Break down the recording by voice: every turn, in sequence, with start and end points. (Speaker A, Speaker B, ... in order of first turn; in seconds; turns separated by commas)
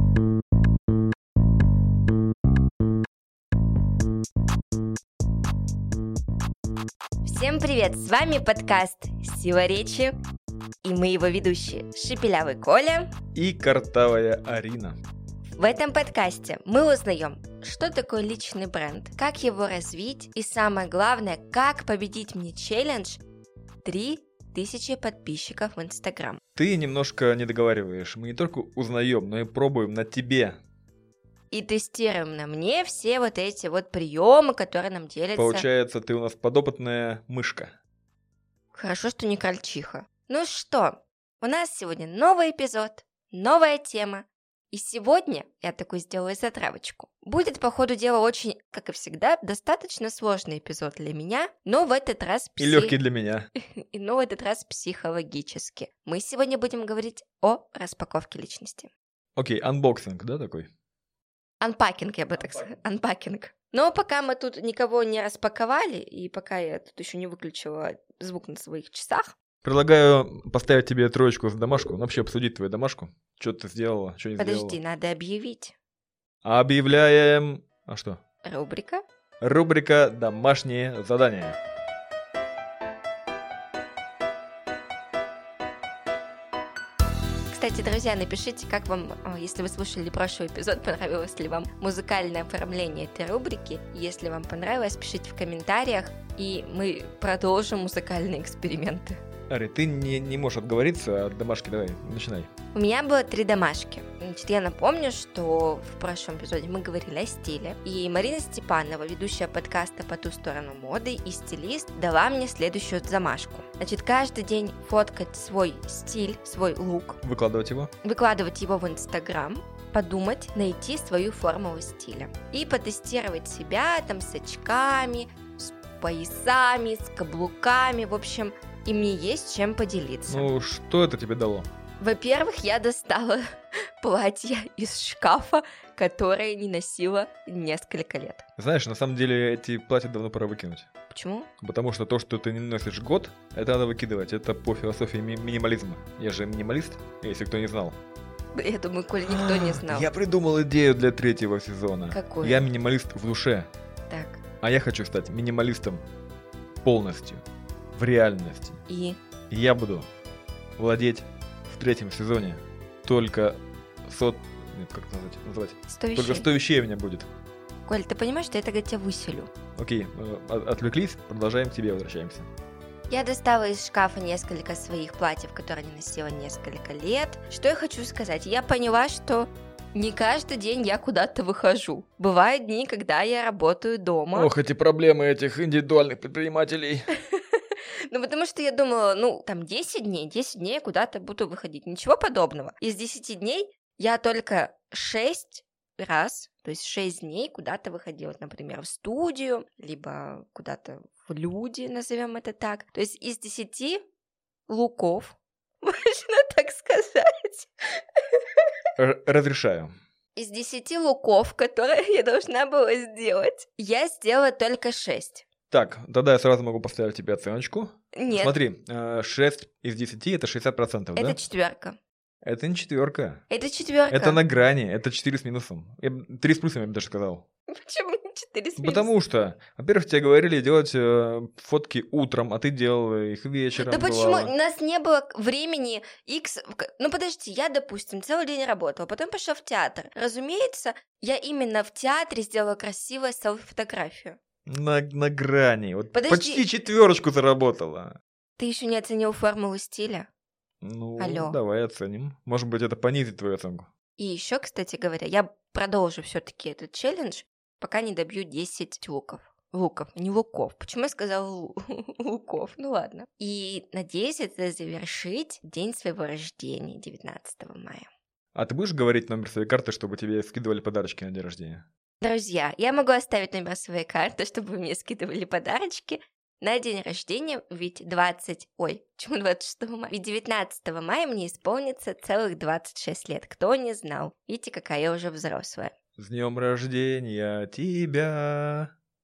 Speaker A: 7.2-10.1, Speaker A: 10.8-13.1, Speaker B: 13.3-15.0, Speaker A: 15.6-23.2, Speaker A: 23.8-26.4, Speaker B: 26.6-30.6, Speaker A: 31.5-35.7, Speaker B: 35.4-37.7, Speaker A: 38.8-53.0, Speaker B: 52.6-53.5, Speaker A: 53.5-58.9, Speaker B: 59.4-60.7, Speaker A: 61.6-69.3, Speaker B: 69.6-74.8, Speaker A: 74.4-75.8, Speaker B: 76.4-78.2, Speaker A: 78.4-79.0, Speaker B: 79.4-81.6, Speaker A: 87.5-99.2, Speaker B: 99.5-102.5, Speaker A: 102.7-117.2, Speaker B: 117.2-117.9, Speaker A: 118.0-130.5, Speaker B: 130.3-131.7, Speaker A: 132.0-138.5, Speaker B: 138.6-140.9, Speaker A: 141.1-141.5, Speaker B: 141.6-148.0, Speaker A: 148.5-150.1, Speaker B: 149.3-153.7, Speaker A: 152.1-152.7, Speaker A: 154.1-154.4, Speaker B: 154.6-156.0, Speaker B: 156.8-158.8, Speaker A: 158.9-159.2, Speaker B: 159.5-160.1, Speaker B: 160.8-167.3, Speaker A: 165.9-166.5, Speaker A: 167.8-169.5, Speaker B: 169.7-172.5, Speaker A: 173.1-184.5, Speaker B: 184.3-187.1, Speaker A: 187.3-204.0, Speaker A: 204.7-208.4, Speaker B: 209.0-209.9, Speaker A: 210.3-215.4, Speaker B: 215.7-221.4, Speaker A: 218.1-218.5, Speaker A: 221.2-222.0, Speaker B: 222.4-223.4, Speaker A: 223.5-224.4, Speaker B: 224.1-227.4, Speaker A: 227.7-229.1, Speaker B: 228.8-234.5, Speaker A: 233.7-244.4, Speaker B: 244.7-248.2, Speaker A: 246.1-246.6, Speaker A: 248.6-250.3, Speaker B: 250.8-253.9, Speaker A: 251.2-251.6, Speaker A: 254.2-268.1, Speaker B: 268.6-271.9, Speaker A: 272.2-285.9, Speaker B: 286.2-288.9